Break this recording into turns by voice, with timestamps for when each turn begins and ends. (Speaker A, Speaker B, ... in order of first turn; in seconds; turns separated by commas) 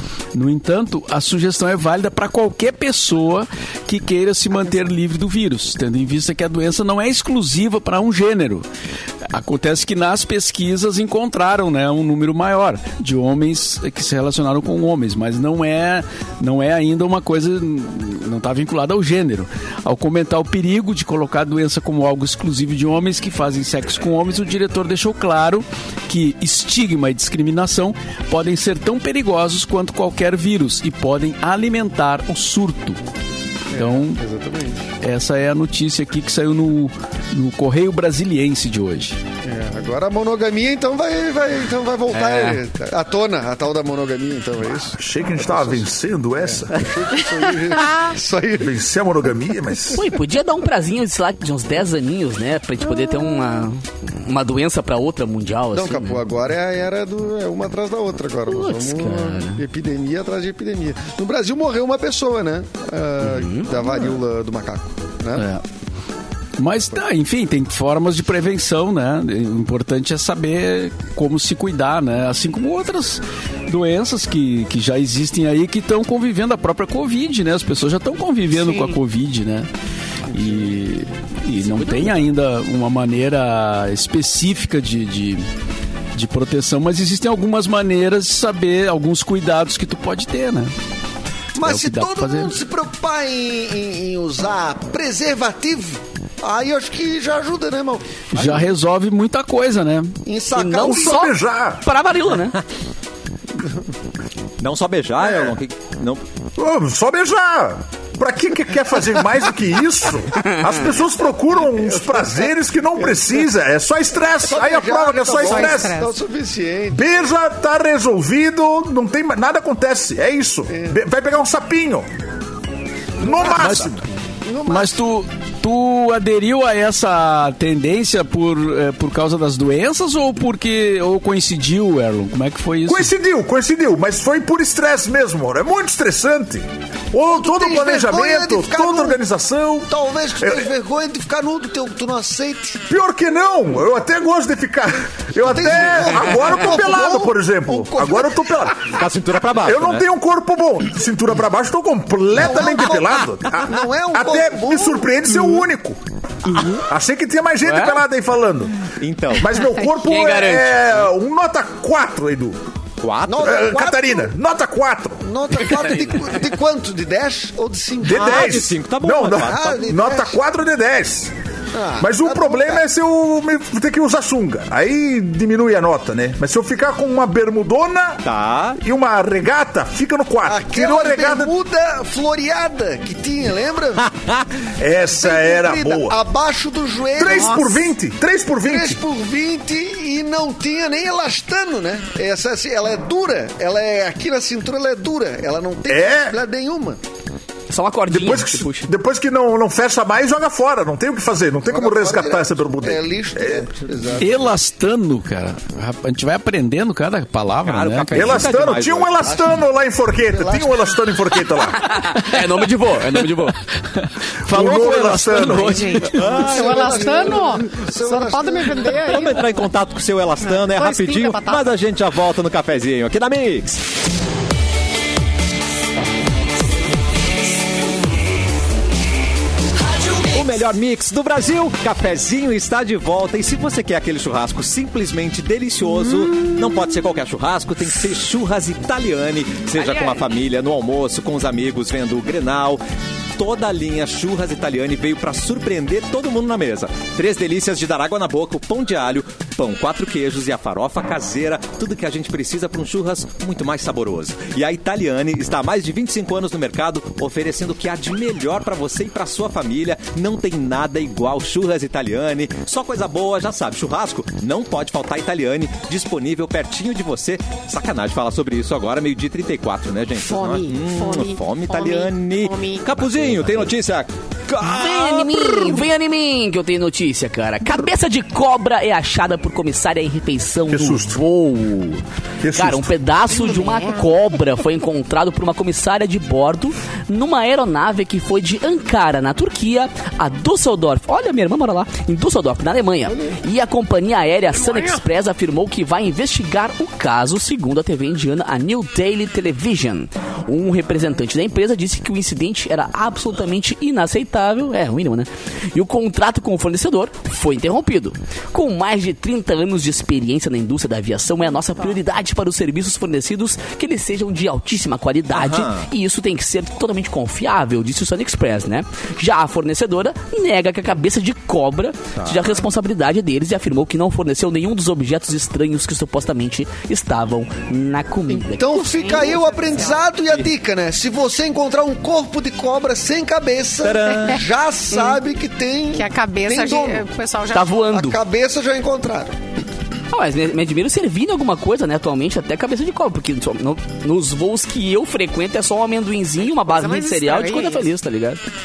Speaker A: 0.3-8.7, Speaker A: 9.3-33.0, Speaker B: 33.7-34.9, Speaker A: 33.7-34.2, Speaker A: 35.0-39.2, Speaker B: 39.4-48.7, Speaker C: 42.1-42.6, Speaker D: 44.9-46.8, Speaker E: 47.7-48.1, Speaker D: 48.6-50.1, Speaker C: 49.9-56.2, Speaker E: 53.0-53.5, Speaker B: 55.7-65.5, Speaker C: 58.5-59.6, Speaker C: 63.2-63.7, Speaker A: 65.3-65.6, Speaker A: 66.6-79.7, Speaker C: 78.6-78.9, Speaker A: 80.3-85.4, Speaker C: 81.6-82.2, Speaker A: 86.1-90.7, Speaker B: 91.5-98.4, Speaker A: 91.6-92.5, Speaker A: 98.3-100.1, Speaker B: 100.2-101.2, Speaker C: 100.5-102.6, Speaker D: 100.7-101.8, Speaker F: 104.6-106.2, Speaker D: 106.6-116.0, Speaker B: 111.6-113.3, Speaker B: 114.4-117.1, Speaker E: 115.4-116.2, Speaker D: 116.9-122.1, Speaker B: 120.7-121.0, Speaker D: 123.2-124.0, Speaker B: 123.2-123.9, Speaker A: 123.5-123.9, Speaker B: 124.4-125.0, Speaker A: 124.7-133.1, Speaker D: 132.8-140.7, Speaker B: 137.2-139.2, Speaker B: 139.9-142.8, Speaker D: 142.9-148.9, Speaker B: 145.4-148.5, Speaker F: 148.8-150.1, Speaker D: 149.6-156.0, Speaker B: 152.3-155.3, Speaker C: 156.5-156.8, Speaker D: 156.7-158.7, Speaker C: 157.6-158.0, Speaker F: 159.0-159.6, Speaker D: 159.3-162.6, Speaker C: 160.0-160.9, Speaker F: 163.0-163.6, Speaker B: 163.2-164.3, Speaker D: 163.4-165.2, Speaker B: 165.2-168.6, Speaker D: 168.0-171.3, Speaker F: 168.1-169.8, Speaker B: 169.3-170.4, Speaker B: 171.7-172.8, Speaker D: 172.0-178.2, Speaker F: 178.2-178.8, Speaker D: 178.8-181.5, Speaker B: 180.4-184.1, Speaker F: 184.0-184.5, Speaker D: 184.8-186.2, Speaker B: 185.1-187.9, Speaker D: 187.2-189.0, Speaker B: 188.6-197.0, Speaker D: 195.9-196.4, Speaker C: 197.7-198.9, Speaker D: 198.1-203.7, Speaker B: 201.6-204.4, Speaker A: 204.2-208.4, Speaker F: 207.6-209.3, Speaker D: 208.1-212.0, Speaker B: 209.2-209.6, Speaker B: 210.3-210.9, Speaker C: 211.8-213.6, Speaker A: 213.9-216.4, Speaker D: 214.5-215.8, Speaker E: 215.4-219.5, Speaker F: 216.1-217.3, Speaker B: 216.1-219.2, Speaker F: 219.1-223.8, Speaker E: 220.4-221.7, Speaker F: 230.1-242.8, Speaker E: 239.8-240.2, Speaker F: 243.4-274.1, Speaker E: 270.2-273.1, Speaker C: 274.6-281.2, Speaker D: 280.7-282.9, Speaker C: 282.5-329.5, Speaker B: 293.1-293.4, Speaker E: 294.5-295.0, Speaker F: 315.3-315.9, Speaker F: 322.1-322.5, Speaker B: 328.3-337.1, Speaker E: 329.0-330.0, Speaker F: 333.8-334.4, Speaker E: 335.9-337.9, Speaker C: 337.5-338.2, Speaker B: 337.9-339.4, Speaker C: 340.1-348.4, Speaker E: 346.4-347.9